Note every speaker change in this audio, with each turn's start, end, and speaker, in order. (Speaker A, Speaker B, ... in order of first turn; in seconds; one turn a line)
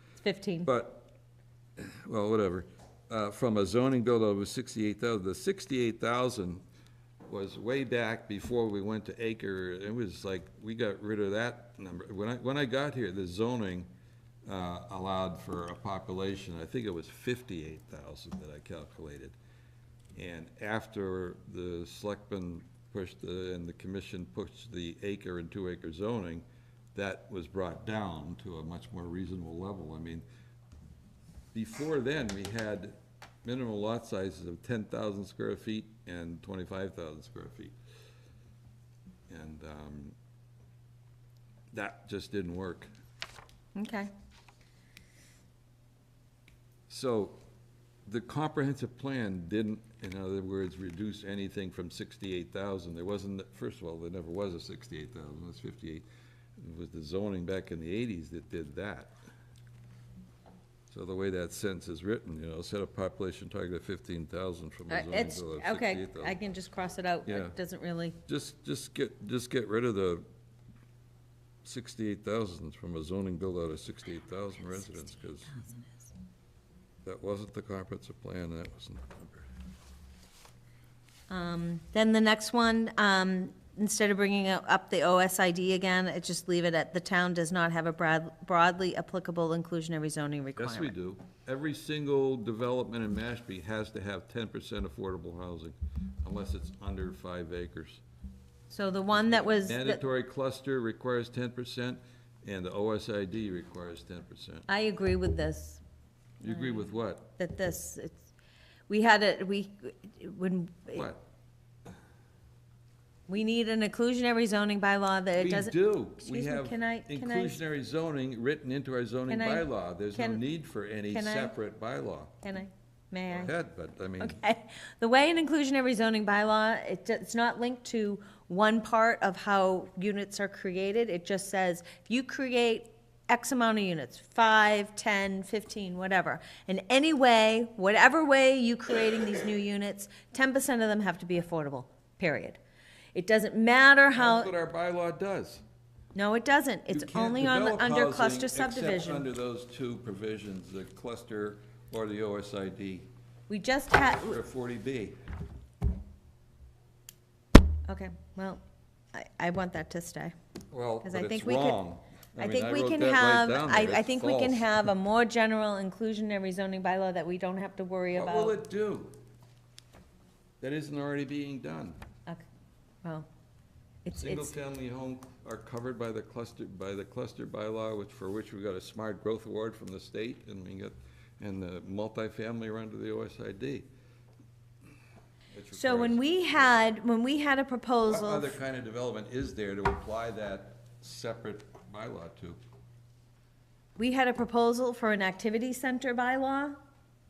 Speaker A: 0.2-0.7
Speaker B: 0.7-1.1
Speaker B: 1.8-6.6
Speaker B: 7.3-13.9
Speaker B: 14.5-19.4
Speaker B: 20.1-30.2
Speaker B: 31.5-37.8
Speaker B: 39.3-40.2
Speaker B: 41.7-42.9
Speaker A: 43.8-44.1
Speaker B: 46.9-47.4
Speaker B: 48.1-56.0
Speaker B: 56.6-59.1
Speaker B: 60.9-66.5
Speaker A: 64.9-68.2
Speaker B: 67.2-67.6
Speaker B: 68.3-70.2
Speaker B: 71.6-75.6
Speaker A: 75.6-75.9
Speaker B: 77.0-79.5
Speaker A: 81.3-90.9
Speaker B: 90.6-98.0
Speaker A: 98.7-100.0
Speaker B: 99.1-104.7
Speaker A: 104.7-105.8
Speaker B: 106.4-107.3
Speaker A: 106.5-106.9
Speaker A: 107.4-108.2
Speaker A: 108.9-111.1
Speaker B: 110.9-111.2
Speaker A: 113.3-117.6
Speaker B: 115.4-122.4
Speaker A: 119.3-120.4
Speaker A: 121.1-121.5
Speaker A: 122.4-123.5
Speaker B: 123.3-124.4
Speaker A: 124.2-142.6
Speaker A: 143.2-144.5
Speaker B: 144.1-145.6
Speaker A: 146.2-149.3
Speaker B: 146.9-153.1
Speaker A: 153.5-154.4
Speaker B: 154.1-155.2
Speaker A: 157.9-158.6
Speaker A: 159.1-160.3
Speaker B: 160.7-164.9
Speaker A: 161.0-161.8
Speaker A: 162.4-168.6
Speaker B: 168.1-169.1
Speaker B: 170.6-172.0
Speaker A: 174.1-174.5
Speaker B: 174.2-183.9
Speaker B: 185.5-186.7
Speaker A: 185.8-188.6
Speaker B: 188.1-192.6
Speaker A: 194.0-196.8